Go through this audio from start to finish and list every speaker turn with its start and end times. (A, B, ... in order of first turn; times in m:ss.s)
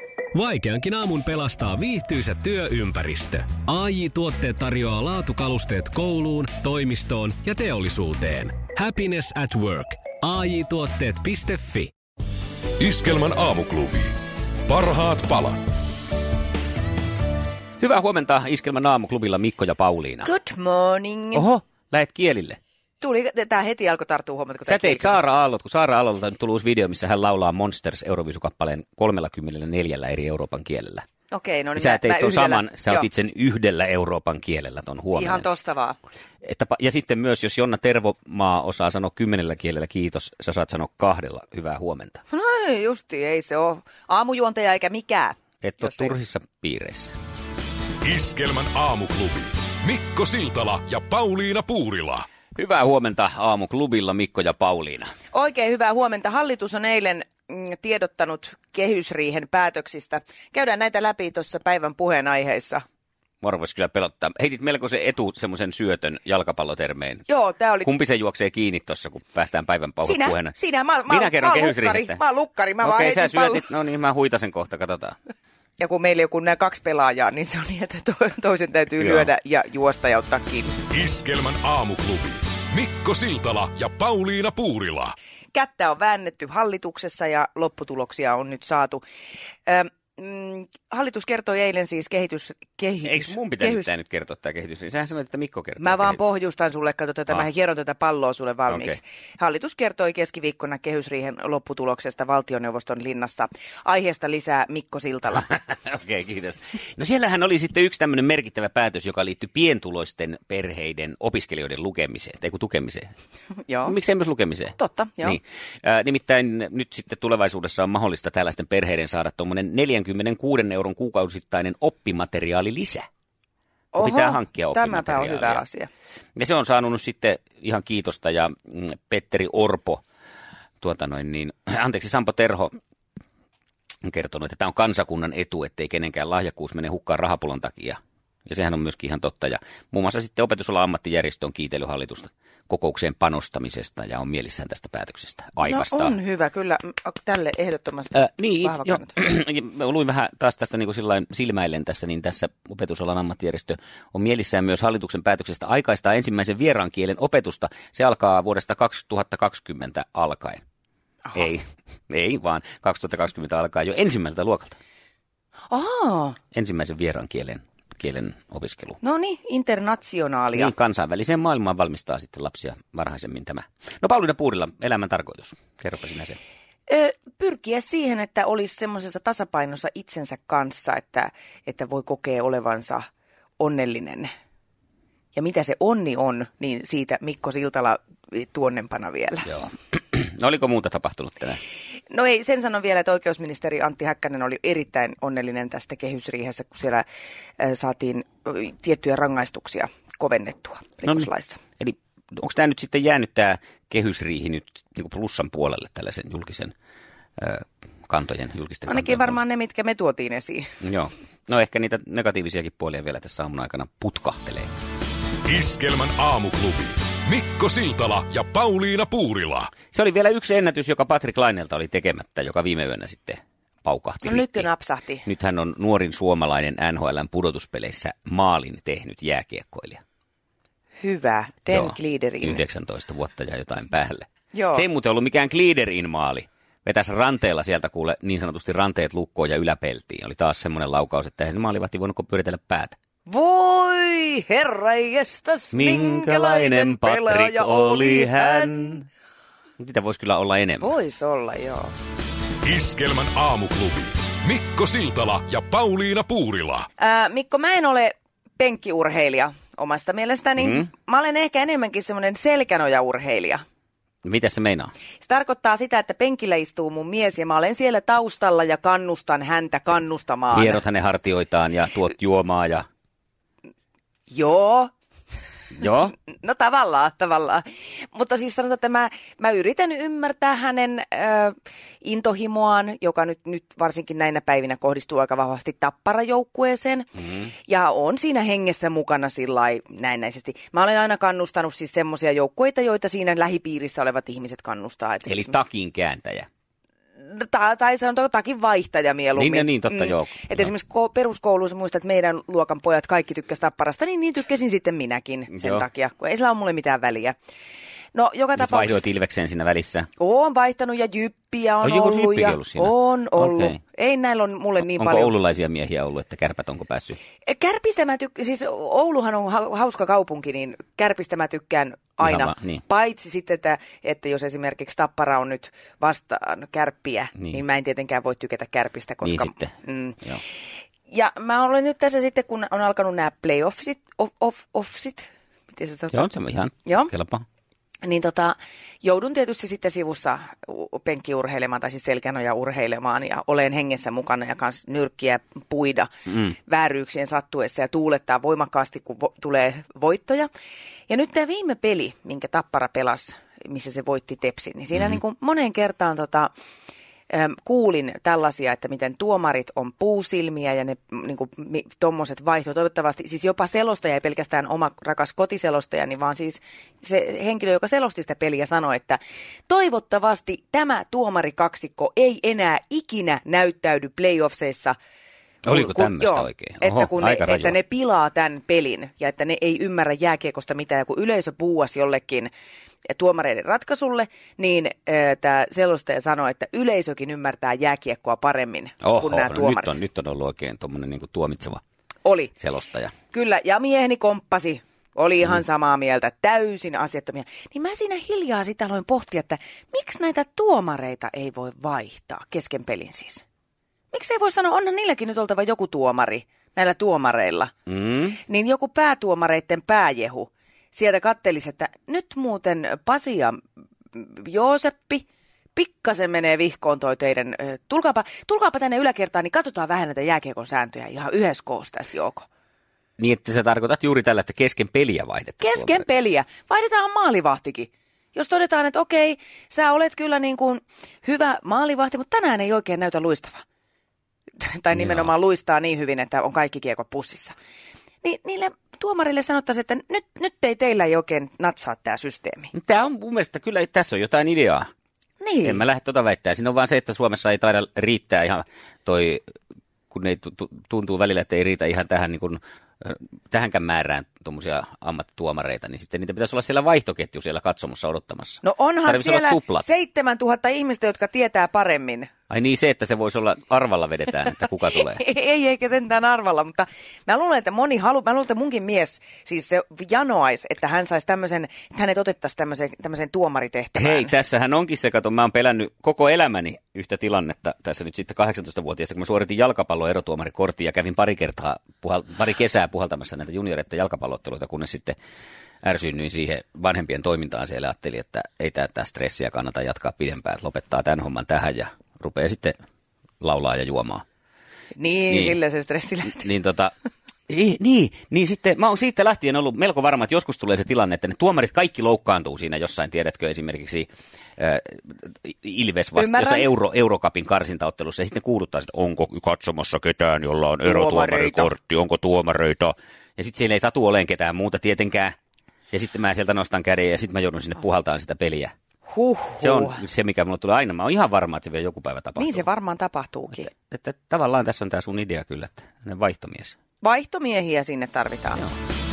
0:00.3-0:11.9 A
0:12.8-0:15.8 B
0:17.8-0:20.3 C
0:20.2-0:21.5 D
0:21.3-0:22.6 C
0:23.0-0:25.2 D
0:24.7-0:31.0 C
0:31.3-0:33.1 D
0:31.8-0:35.4 C
0:35.1-0:36.0 D
0:36.4-0:42.2 C
0:42.3-0:46.2 D
0:45.6-0:47.1 C
0:48.0-0:52.3 B
0:52.6-0:55.1 C
0:55.3-1:02.8 D
1:03.4-1:07.2 C
1:07.3-1:07.9 D
1:07.8-1:10.6 C
1:10.0-1:13.7 D
1:11.1-1:12.2 C
1:12.8-1:15.2 C
1:15.8-1:20.8 D
1:19.0-1:19.3 C
1:20.9-1:25.1 B
1:25.5-1:29.0 D
1:29.7-1:33.9 D
1:33.0-1:36.2 C
1:35.8-1:45.6 D
1:38.7-1:39.0 C
1:45.5-1:53.1 C
1:53.7-1:54.0 D
1:53.8-2:03.1 C
1:54.8-1:55.4 D
2:03.9-2:05.9 D
2:04.0-2:05.6 C
2:06.4-2:10.0 C
2:10.8-2:12.7 C
2:14.0-2:26.2 C
2:25.6-2:29.2 D
2:28.1-2:40.6 C
2:41.3-2:44.8 C
2:45.7-2:46.4 D
2:46.5-2:49.0 C
2:49.0-2:50.7 D
2:50.5-2:56.4 C
2:56.9-3:03.1 D
3:03.6-3:04.3 D
3:05.4-3:09.5 D
3:09.5-3:11.6 C
3:12.1-3:17.0 D
3:17.6-3:21.6 D
3:21.8-3:26.7 C
3:27.4-3:29.4 C
3:28.9-3:30.8 D
3:30.8-3:34.7 C
3:35.5-3:39.7 B
3:39.9-3:44.7 C
3:44.2-3:45.3 D
3:45.2-3:50.0 C
3:51.0-3:52.6 D
3:51.7-4:03.0 C
3:54.5-3:54.8 D
4:03.3-4:08.8 D
4:05.7-4:09.1 C
4:09.8-4:10.9 C
4:10.8-4:11.9 D
4:12.6-4:16.9 B
4:17.0-4:23.6 D
4:20.6-4:20.9 C
4:24.2-4:24.9 C
4:25.2-4:30.8 D
4:30.5-4:32.9 C
4:34.3-4:34.9 D
4:35.8-4:36.1 C
4:36.2-4:47.1 D
4:47.7-4:55.6 D
4:55.3-4:56.5 C
4:57.2-5:07.4 D
4:59.4-5:00.7 C
5:05.5-5:05.9 C
5:08.2-5:09.0 D
5:08.6-5:10.1 C
5:10.2-5:15.3 D
5:11.8-5:13.8 C
5:14.8-5:17.2 C
5:17.5-5:30.4 D
5:22.2-5:22.8 C
5:29.2-5:30.4 C
5:31.1-5:36.3 D
5:36.1-5:37.4 C
5:36.8-5:37.1 D
5:38.0-5:46.1 D
5:46.3-5:46.5 C
5:46.7-5:50.5 D
5:51.1-5:56.5 D
5:57.3-6:15.0 D
6:15.6-6:17.8 C
6:15.7-6:22.5 D
6:23.1-6:29.9 D
6:29.0-6:31.8 C
6:32.2-6:32.5 D
6:32.6-6:33.1 C
6:33.3-6:43.4 D
6:44.1-6:47.7 D
6:47.9-6:48.4 C
6:48.4-6:53.6 D
6:54.1-7:02.5 D
7:03.2-7:06.1 C
7:05.6-7:13.6 D
7:14.6-7:17.6 D
7:15.0-7:15.3 C
7:18.2-7:22.7 D
7:22.7-7:24.9 C
7:25.4-7:25.8 D
7:25.6-7:29.4 C
7:30.1-7:39.9 C
7:38.6-7:42.3 D
7:42.5-7:45.2 C
7:44.9-7:54.4 D
7:54.0-8:05.2 C
8:05.8-8:12.8 C
8:13.4-8:14.2 C
8:15.0-8:16.5 D
8:15.3-8:15.6 C
8:16.3-8:16.9 C
8:17.5-8:35.4 C
8:26.2-8:26.7 D
8:30.8-8:31.7 D
8:35.9-8:38.7 C
8:39.1-8:40.0 D
8:39.6-8:42.6 C
8:42.4-8:43.7 D
8:43.6-8:46.8 C
8:47.0-8:48.6 D